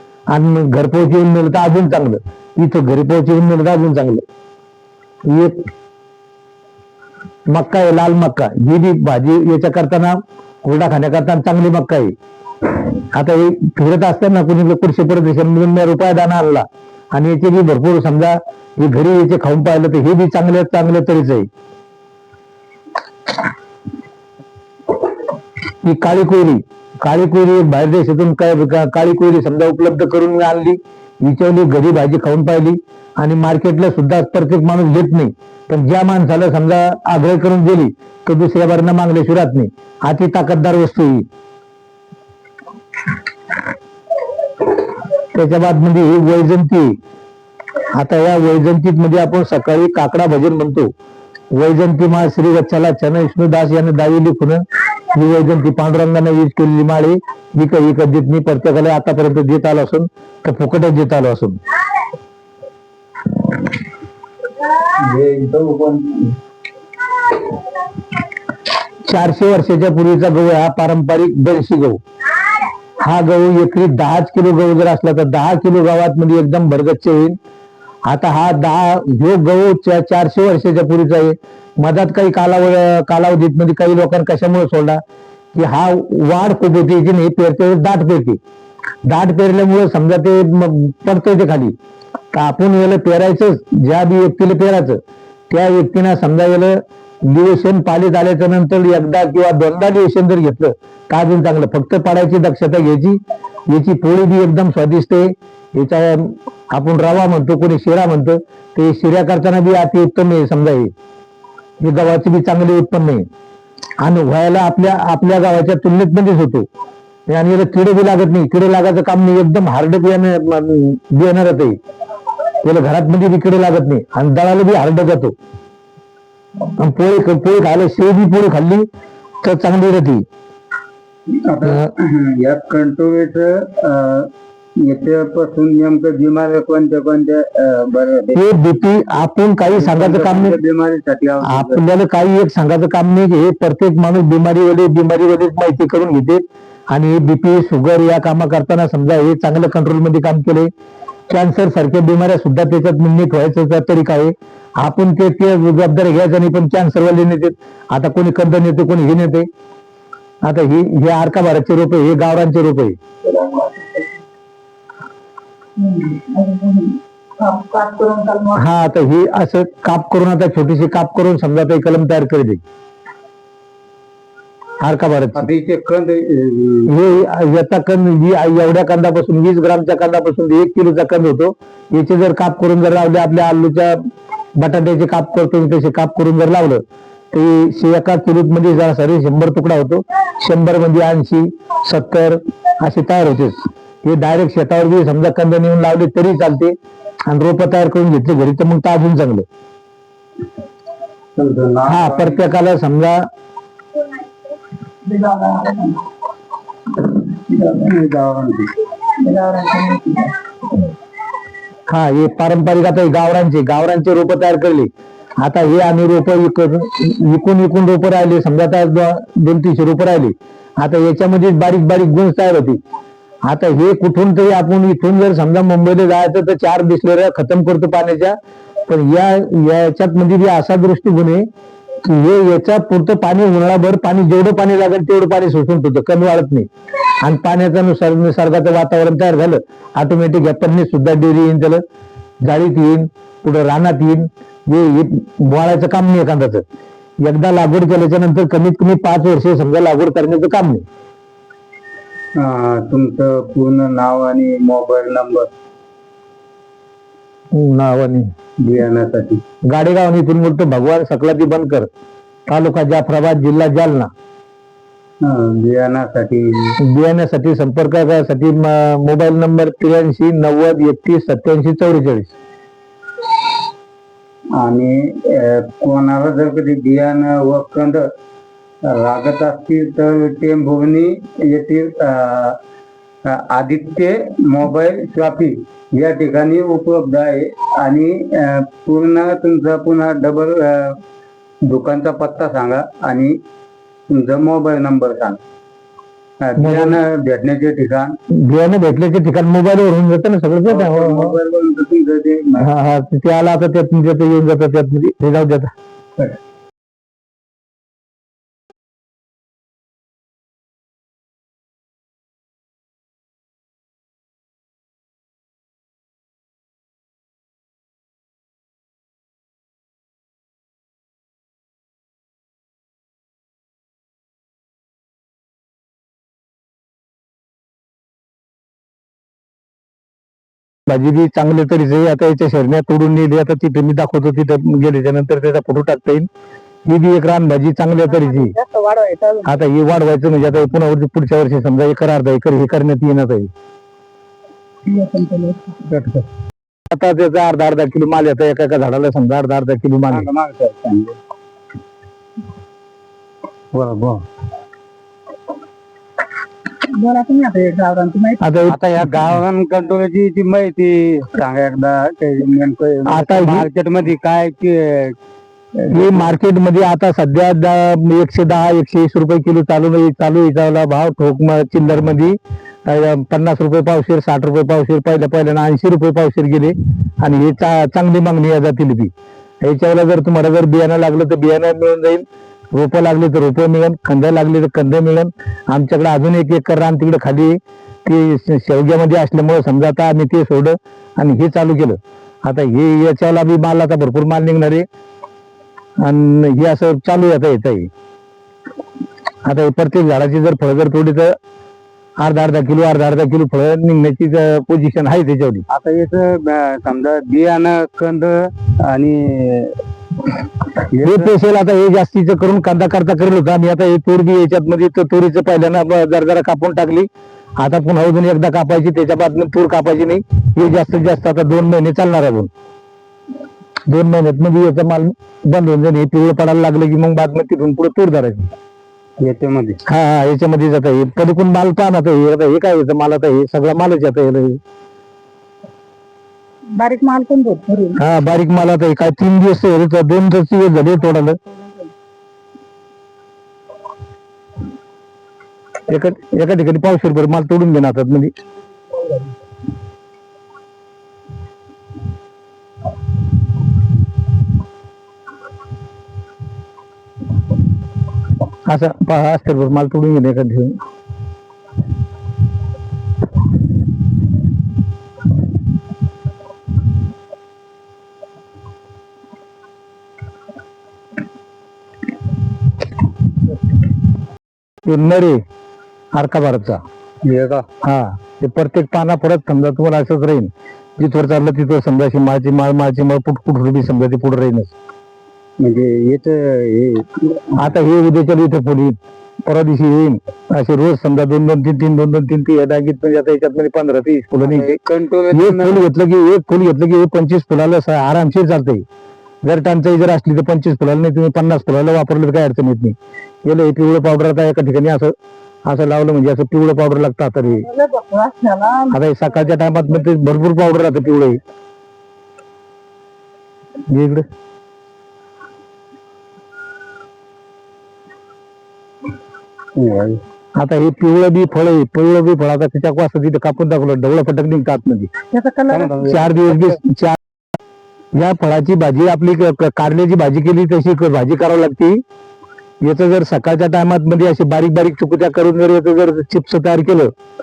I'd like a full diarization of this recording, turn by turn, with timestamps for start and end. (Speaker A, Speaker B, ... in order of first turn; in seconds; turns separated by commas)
Speaker A: 0.3-4.2, Speaker A: 5.2-5.7, Speaker A: 7.5-21.5, Speaker A: 25.8-41.3, Speaker A: 45.3-47.0, Speaker A: 48.0-50.9, Speaker A: 51.5-61.6, Speaker B: 64.9-66.3, Speaker A: 69.0-72.0, Speaker A: 73.0-77.4, Speaker A: 78.1-85.0, Speaker A: 85.5-88.4, Speaker A: 89.1-91.8, Speaker A: 92.3-110.9, Speaker A: 111.8-113.3, Speaker A: 114.0-116.7, Speaker A: 117.3-121.8, Speaker A: 122.6-125.3, Speaker A: 126.8-128.9, Speaker A: 129.4-130.2, Speaker B: 131.3-138.5, Speaker A: 138.3-140.6, Speaker B: 139.8-141.8, Speaker A: 141.4-150.7, Speaker A: 151.3-159.5, Speaker A: 160.4-163.0, Speaker C: 163.2-164.2, Speaker C: 165.8-168.6, Speaker A: 168.5-172.6, Speaker A: 174.8-175.5, Speaker B: 175.3-176.9, Speaker A: 176.9-184.0, Speaker A: 184.6-196.8, Speaker A: 197.3-199.5, Speaker B: 201.4-202.5, Speaker A: 201.9-203.3, Speaker C: 205.1-206.0, Speaker B: 207.5-208.7, Speaker C: 209.2-210.3, Speaker A: 211.9-222.8, Speaker A: 223.5-231.5, Speaker A: 232.0-236.7, Speaker A: 237.2-241.8, Speaker A: 242.4-246.6, Speaker A: 247.2-250.8, Speaker B: 252.4-255.5, Speaker A: 257.5-258.3, Speaker B: 258.6-259.4, Speaker A: 259.6-261.9, Speaker A: 262.5-264.1, Speaker B: 265.2-266.8, Speaker A: 266.8-272.3, Speaker B: 274.5-278.1, Speaker B: 278.8-282.6, Speaker B: 283.2-291.0, Speaker B: 291.6-293.4, Speaker B: 294.1-295.4, Speaker B: 296.4-298.2, Speaker A: 296.6-297.0, Speaker A: 298.3-301.4, Speaker B: 300.7-302.7, Speaker A: 302.6-305.7, Speaker A: 330.9-336.3, Speaker A: 336.9-338.6, Speaker C: 338.1-339.6, Speaker A: 339.4-343.5, Speaker C: 344.9-345.8, Speaker B: 345.9-346.3, Speaker A: 346.9-350.3, Speaker B: 350.1-351.2, Speaker B: 353.7-354.2, Speaker C: 356.9-358.4, Speaker A: 358.4-359.3, Speaker B: 358.7-365.2, Speaker A: 363.1-363.7, Speaker B: 365.8-366.2, Speaker A: 365.9-394.9, Speaker A: 396.0-397.9, Speaker A: 399.4-401.4, Speaker A: 402.2-405.6, Speaker B: 405.7-409.8, Speaker B: 410.8-411.3, Speaker A: 411.0-422.5, Speaker A: 423.9-428.5, Speaker B: 429.2-429.8, Speaker A: 429.9-434.6, Speaker C: 436.7-438.0, Speaker A: 438.0-441.4, Speaker C: 441.5-441.9, Speaker A: 445.9-448.3, Speaker A: 458.6-460.8, Speaker A: 474.9-475.4, Speaker A: 476.1-476.8, Speaker B: 477.2-477.6, Speaker A: 477.8-484.7, Speaker B: 485.6-487.8, Speaker A: 487.6-494.8, Speaker B: 494.4-495.8, Speaker A: 495.3-498.9, Speaker A: 499.4-505.1, Speaker A: 505.7-507.7, Speaker C: 507.4-509.0, Speaker A: 508.9-511.4, Speaker A: 513.9-514.3, Speaker B: 519.8-520.2, Speaker A: 520.6-525.1, Speaker C: 525.3-526.1, Speaker B: 525.7-526.8, Speaker A: 526.0-527.2, Speaker A: 528.1-532.0, Speaker A: 532.8-537.1